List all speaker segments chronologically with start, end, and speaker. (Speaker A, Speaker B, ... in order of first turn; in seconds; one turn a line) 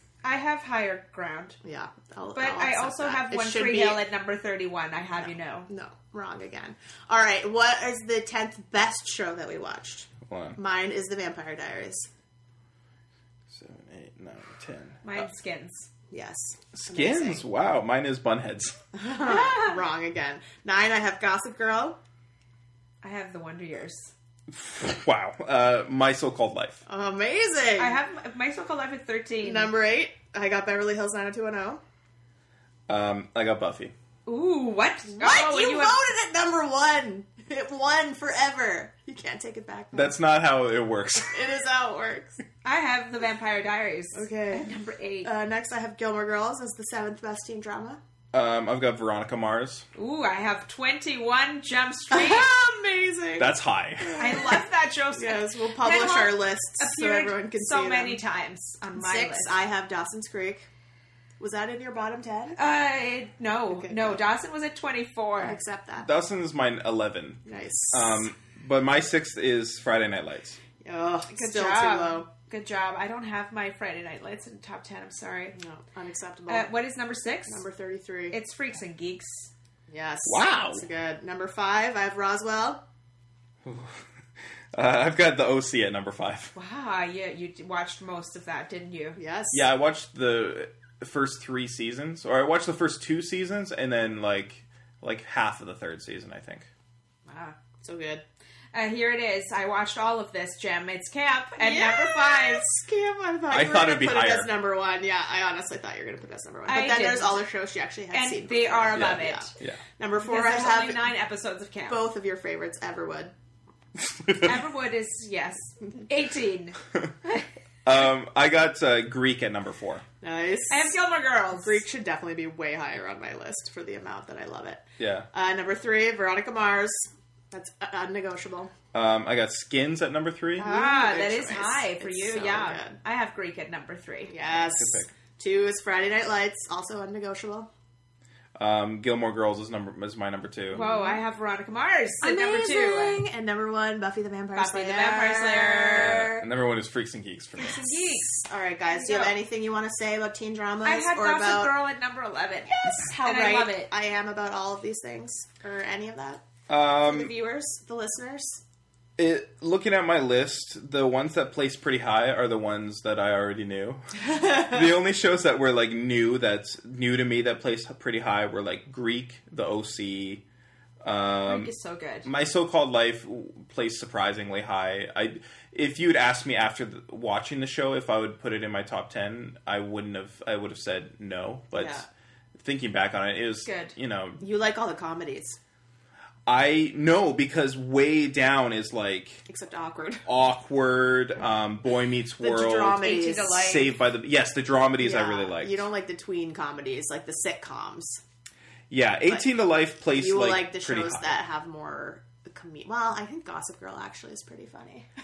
Speaker A: 0.2-1.6
Speaker B: 1.6-4.0
Speaker A: 2.3-5.7
Speaker B: 5.2-12.1
Speaker C: 10.2-10.6
Speaker C: 13.5-15.2
Speaker A: 15.0-15.9
Speaker B: 16.1-17.4
Speaker C: 16.7-18.8
Speaker B: 18.9-22.0
Speaker A: 19.3-19.7
Speaker A: 23.0-24.1
Speaker C: 24.5-26.8
Speaker B: 26.9-28.0
Speaker A: 27.8-29.7
Speaker B: 29.4-31.8
Speaker C: 32.9-33.9
Speaker A: 34.2-36.0
Speaker B: 35.2-40.1
Speaker C: 39.9-41.3
Speaker B: 41.2-42.4
Speaker A: 42.6-45.3
Speaker B: 44.1-44.7
Speaker B: 45.2-48.0
Speaker C: 48.3-49.9
Speaker A: 50.0-52.5
Speaker B: 52.1-58.2
Speaker C: 53.4-54.2
Speaker A: 54.2-59.5
Speaker B: 59.0-60.7
Speaker B: 61.4-62.6
Speaker A: 62.5-65.6
Speaker B: 63.7-64.2
Speaker B: 65.4-66.1
Speaker C: 66.0-67.4
Speaker B: 67.5-68.2
Speaker C: 67.9-70.6
Speaker B: 70.8-72.3
Speaker A: 71.3-75.6
Speaker B: 75.5-76.7
Speaker A: 76.5-77.6
Speaker B: 77.5-78.3
Speaker A: 78.3-79.5
Speaker B: 79.9-82.8
Speaker C: 80.2-80.8
Speaker C: 83.6-84.0
Speaker C: 84.7-86.5
Speaker A: 86.5-89.2
Speaker B: 89.2-89.7
Speaker C: 89.5-96.7
Speaker A: 97.2-97.5
Speaker B: 97.8-98.2
Speaker A: 98.7-102.6
Speaker B: 101.6-111.1
Speaker C: 103.5-104.5
Speaker A: 106.7-107.4
Speaker A: 108.1-109.5
Speaker C: 108.9-109.8
Speaker A: 110.2-112.0
Speaker B: 111.9-113.3
Speaker A: 114.4-117.4
Speaker C: 117.8-120.0
Speaker B: 120.2-121.0
Speaker A: 120.7-121.8
Speaker B: 121.5-128.7
Speaker C: 125.0-125.3
Speaker C: 128.9-130.7
Speaker A: 130.6-134.3
Speaker B: 130.6-133.0
Speaker B: 134.3-137.7
Speaker C: 134.8-135.1
Speaker C: 138.6-140.8
Speaker A: 140.7-143.2
Speaker B: 140.7-141.2
Speaker B: 142.2-146.4
Speaker A: 144.5-146.2
Speaker C: 145.9-147.9
Speaker A: 147.6-148.4
Speaker B: 148.2-151.7
Speaker A: 148.9-149.4
Speaker A: 150.8-153.9
Speaker B: 152.7-158.6
Speaker C: 156.7-157.3
Speaker C: 159.2-170.4
Speaker B: 164.4-164.6
Speaker C: 171.0-171.7
Speaker A: 171.4-172.3
Speaker C: 172.2-184.4
Speaker B: 181.7-182.1
Speaker A: 183.6-183.9
Speaker B: 184.4-185.6
Speaker C: 186.5-189.4
Speaker B: 189.5-190.2
Speaker C: 190.2-195.9
Speaker B: 192.4-193.7
Speaker A: 192.9-193.9
Speaker B: 195.0-198.2
Speaker C: 198.9-201.4
Speaker B: 200.1-205.1